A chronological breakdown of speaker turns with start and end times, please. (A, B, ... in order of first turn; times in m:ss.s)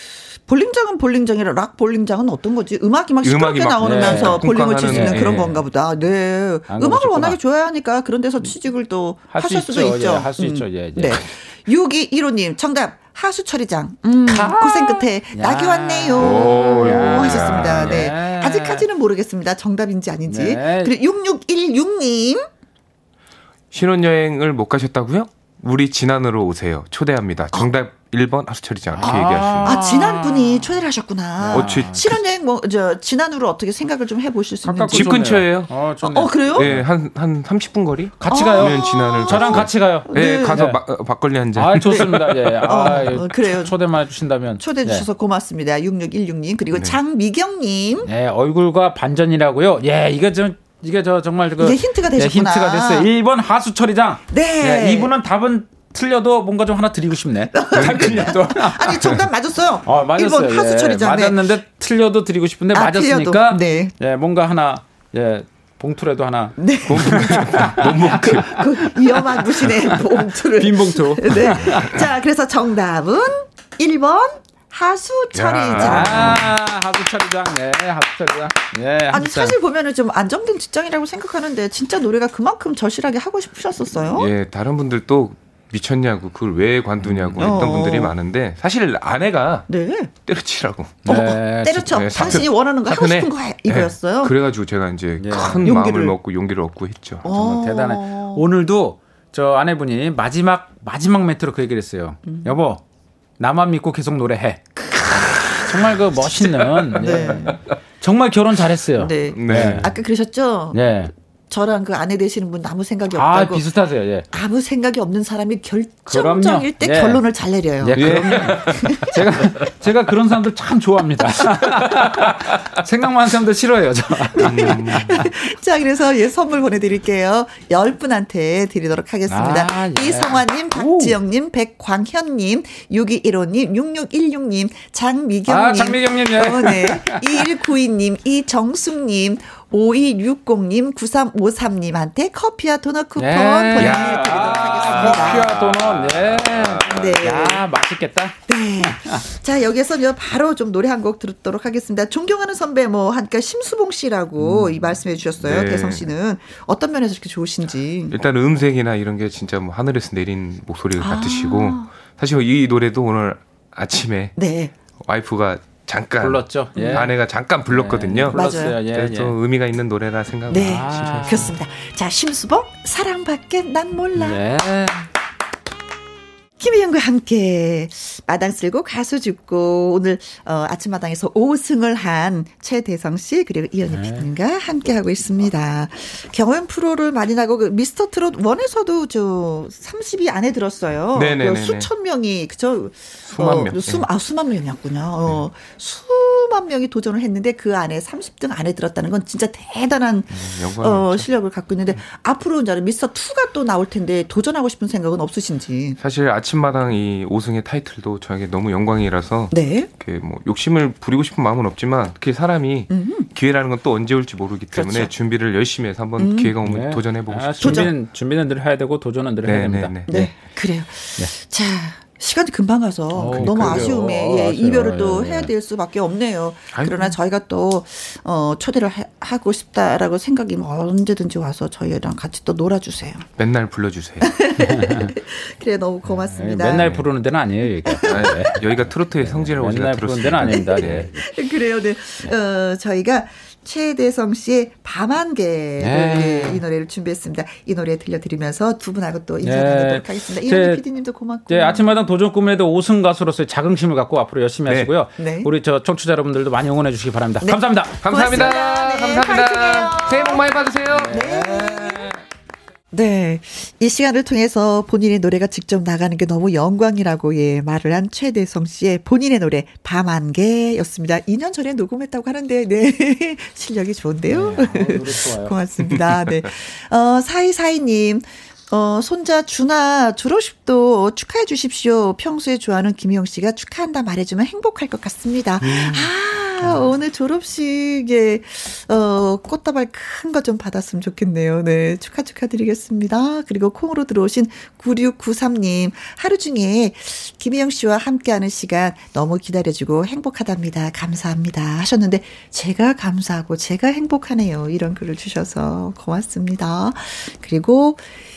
0:00.4-0:22.4 A
0:03.2-0:05.6 B
0:03.8-0:05.5 C
0:06.7-0:07.4 C
0:09.3-0:11.3 C
0:14.2-0:18.8 C
0:16.2-0:18.1 B
0:20.3-0:20.9 C
0:23.7-0:29.8 B
0:29.0-0:30.7 C
0:29.0-0:35.2 A
0:31.4-0:32.2 C
0:31.5-0:32.0 B
0:34.6-0:36.9 C
0:34.9-0:35.7 B
0:36.0-0:36.7 A
0:36.5-0:42.3 B
0:38.2-0:40.8 C
0:38.3-0:40.7 A
0:41.5-0:45.0 C
0:41.8-0:43.8 A
0:44.6-0:48.1 A
0:48.0-0:59.2 C
0:51.6-0:53.1 A
0:54.3-0:55.1 A
0:57.5-1:01.5 A
0:57.8-0:58.4 B
0:59.8-1:12.0 C
1:02.7-1:03.9 A
1:06.6-1:16.5 A
1:06.9-1:08.6 B
1:15.4-1:16.5 B
1:15.7-1:19.6 C
1:19.1-1:24.3 A
1:24.2-1:29.7 B
1:27.2-1:27.5 C
1:27.4-1:28.1 A
1:29.7-1:30.1 A
1:30.2-1:31.3 B
1:31.0-1:32.4 C
1:31.0-1:34.4 A
1:31.9-1:37.2 B
1:35.2-1:35.7 C
1:35.3-1:36.2 A
1:37.2-1:38.5 A
1:37.3-1:42.8 C
1:42.3-1:42.5 A
1:43.4-1:49.9 C
1:46.9-1:47.6 A
1:48.9-1:50.8 A
1:49.3-1:49.9 B
1:50.7-1:51.1 C
1:51.5-1:53.7 A
1:53.1-1:54.2 C
1:54.3-1:59.3 A
1:56.1-1:57.2 C
1:57.8-2:05.3 C
1:57.9-1:59.1 B
2:04.4-2:25.7 A
2:04.4-2:05.3 B
2:09.3-2:11.1 C
2:15.5-2:17.4 C
2:23.2-2:29.2 C
2:23.8-2:27.0 B
2:26.8-2:27.6 A
2:28.5-2:38.2 A
2:35.4-2:36.0 B
2:38.1-2:44.3 B
2:41.0-2:41.9 A
2:44.4-2:44.7 A
2:45.0-2:51.4 B
2:46.2-2:49.4 C
2:46.8-2:47.0 A
2:48.3-2:48.8 A
2:50.5-2:54.4 A
2:50.6-2:51.5 C
2:54.2-2:55.0 C
2:56.6-3:26.0 A
3:03.9-3:04.3 C
3:11.1-3:11.9 B
3:13.3-3:14.0 B
3:20.3-3:21.2 B
3:26.0-3:37.9 B
3:29.5-3:29.9 A
3:32.9-3:33.3 A
3:34.7-3:35.1 A
3:36.2-3:36.6 A
3:36.6-3:40.3 C
3:37.6-3:37.9 A
3:39.4-3:40.1 B
3:40.1-3:53.3 A
3:43.1-3:45.5 C
3:43.3-3:43.9 B
3:53.4-3:54.3 B
3:54.2-3:57.0 A
3:54.6-3:55.1 C
3:56.2-4:01.2 C
3:57.8-3:58.5 A
3:58.0-4:01.1 B
4:00.5-4:11.9 A
4:05.8-4:06.6 C
4:09.4-4:10.8 C
4:11.5-4:18.5 C
4:14.7-4:14.9 B
4:15.2-4:15.5 A
4:17.4-4:20.5 A
4:18.0-4:22.1 B
4:21.0-4:21.8 C
4:21.0-4:22.1 A
4:22.9-5:08.0 A
4:34.3-4:35.6 C
4:45.6-4:46.1 B